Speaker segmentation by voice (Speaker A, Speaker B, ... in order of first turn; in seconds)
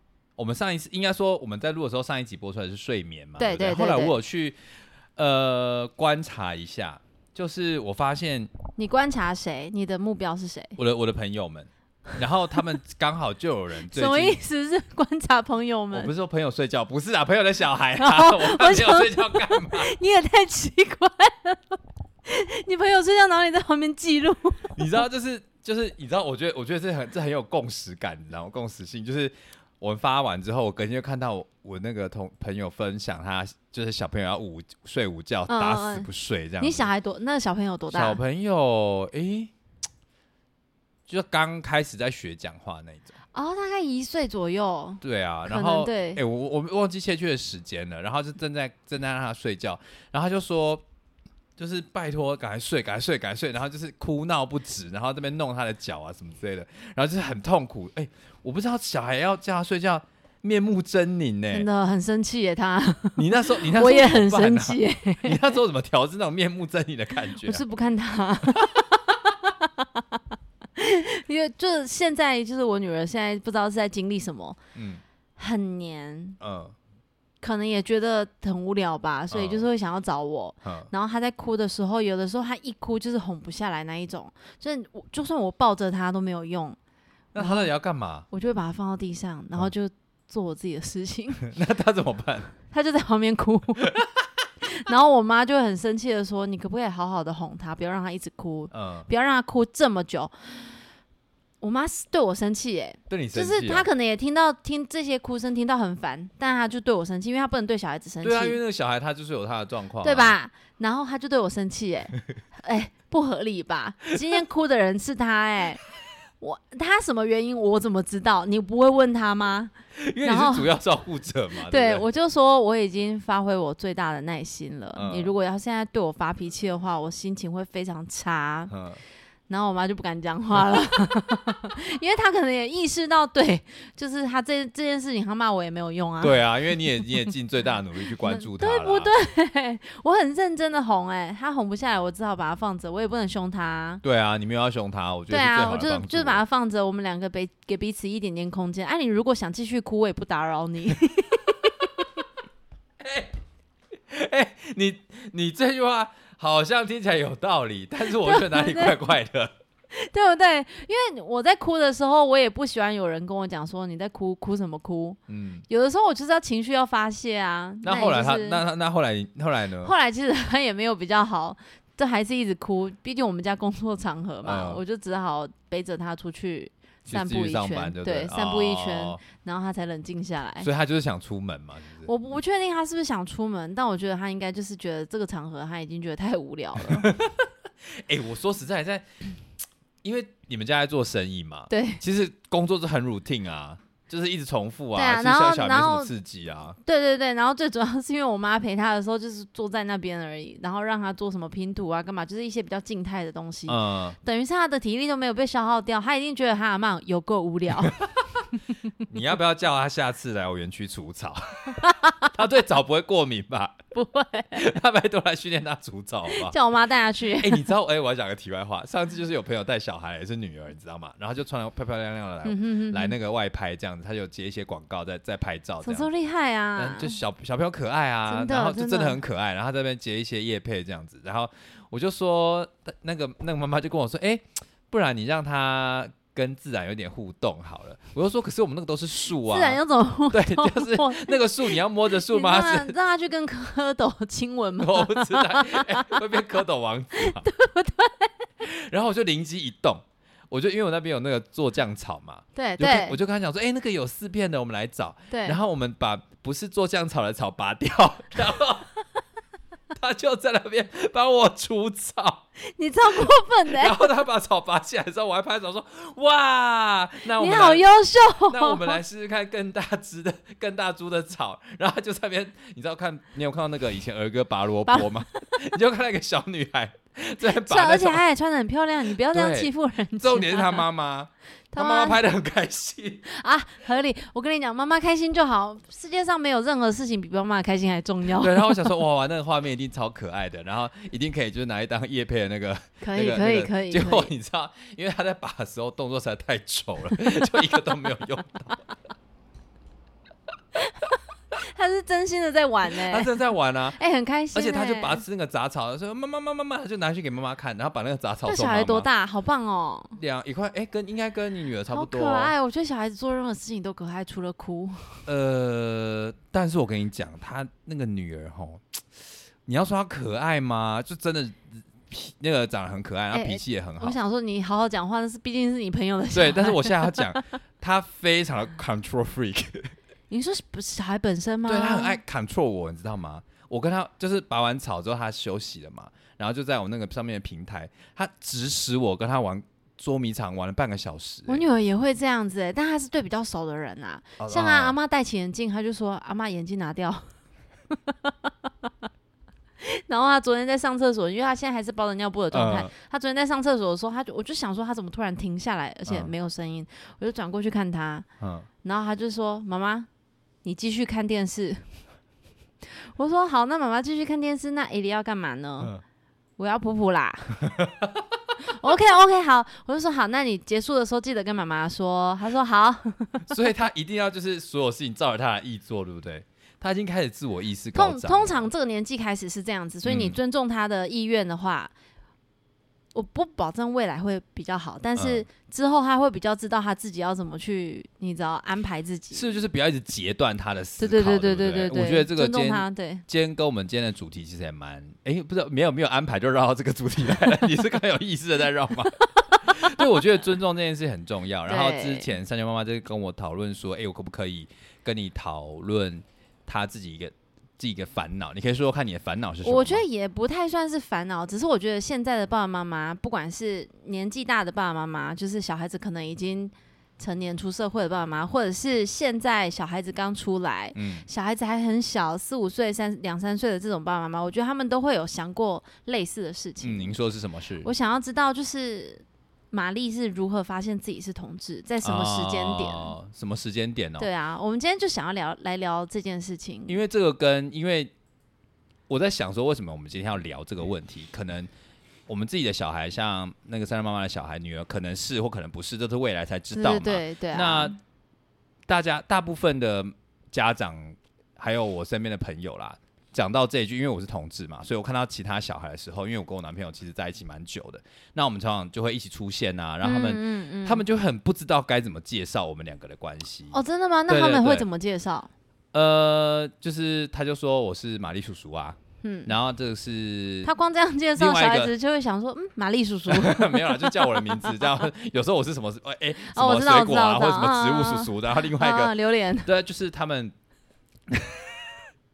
Speaker A: 0.4-4.6, 5.2-8.5, 10.8-14.4, 15.9-19.9, 24.7-36.9, 37.9-39.5, 41.1-43.1, 45.0-50.8, 51.6-61.7, 63.2-67.6, 68.5-69.0, 74.7-75.0, 76.4-76.8, 79.3-79.6, 80.6-80.9, 87.3-88.3, 91.4-92.5, 93.8-94.2, 98.7-99.1, 103.1-103.9, 108.2-110.3, 119.9-122.0, 125.0-125.3, 128.7-129.0, 136.2-139.1, 144.0-146.4, 153.0-153.3, 154.1-159.5, 165.3-165.6, 167.8-169.9, 174.4-174.8, 177.0-179.2, 180.6-182.1, 186.8-189.1, 190.0-196.8, 203.7-204.2, 207.9-208.4, 209.0-213.8, 214.6-216.5, 217.4-226.1, 226.8-239.8, 240.3-242.9, 244.8-247.5, 248.6-258.9, 259.9-262.4, 263.1-267.8, 268.4-278.2, 279.3-283.2, 288.4-298.9, 302.9-304.0, 304.5-309.1, 310.2-312.5, 315.3-319.0, 319.6-324.1, 326.3-329.9, 331.6-341.6, 344.4-344.9, 352.5-352.9, 358.4-358.7, 367.6-368.2, 373.5-378.7, 380.0-380.4, 385.1-385.4, 389.3-410.0, 420.9-421.3, 426.8-427.9, 432.0-434.3, 436.9-438.1, 439.1-441.7, 442.3-447.9, 448.9-464.9, 465.9-470.7, 471.4-471.9, 473.3-479.1, 479.6-480.5, 481.3-482.0
Speaker B: 3.4-4.1, 8.8-10.8, 13.9-16.1, 18.0-25.0, 35.5-36.1, 36.6-38.2, 43.3-46.2, 61.5-65.6, 67.2-70.2, 70.8-74.6, 75.4-76.4, 77.4-86.8, 87.4-87.7, 88.3-91.4, 92.7-93.9, 94.6-100.7, 101.6-108.6, 110.0-115.8, 116.4-119.7, 120.2-120.7, 121.7-128.7, 129.5-136.8, 138.2-144.0, 145.3-152.2, 158.0-159.0, 159.9-165.2, 165.7-168.6, 169.8-180.7, 182.0-187.1, 191.7-192.0, 194.9-196.1, 196.8-208.0, 211.7-212.3, 213.9-214.7, 216.3-217.7, 222.4-223.2, 225.8-227.2, 228.3-229.2, 239.4-246.2, 247.1-248.3, 252.5-253.2, 255.3-255.6, 262.6-264.1, 267.4-269.0, 274.9-275.5, 277.4-280.9, 281.7-282.2, 283.2-288.9, 293.0-294.3, 300.8-303.3, 303.9-305.2, 308.4-310.2, 311.9-315.3, 323.3-327.4, 330.3-332.2, 341.5-347.3, 348.0-348.9, 349.8-358.2, 358.8-360.1, 360.6-362.0, 362.8-365.9, 366.6-367.7, 368.6-373.5, 377.9-381.9, 383.1-389.5, 391.0-393.2, 399.0-400.1, 401.7-402.3, 409.6-427.1, 427.8-433.1, 434.2-437.0, 446.7-448.0, 460.0-461.0, 463.7-465.5, 469.2-469.5, 470.6-474.9, 476.4-479.7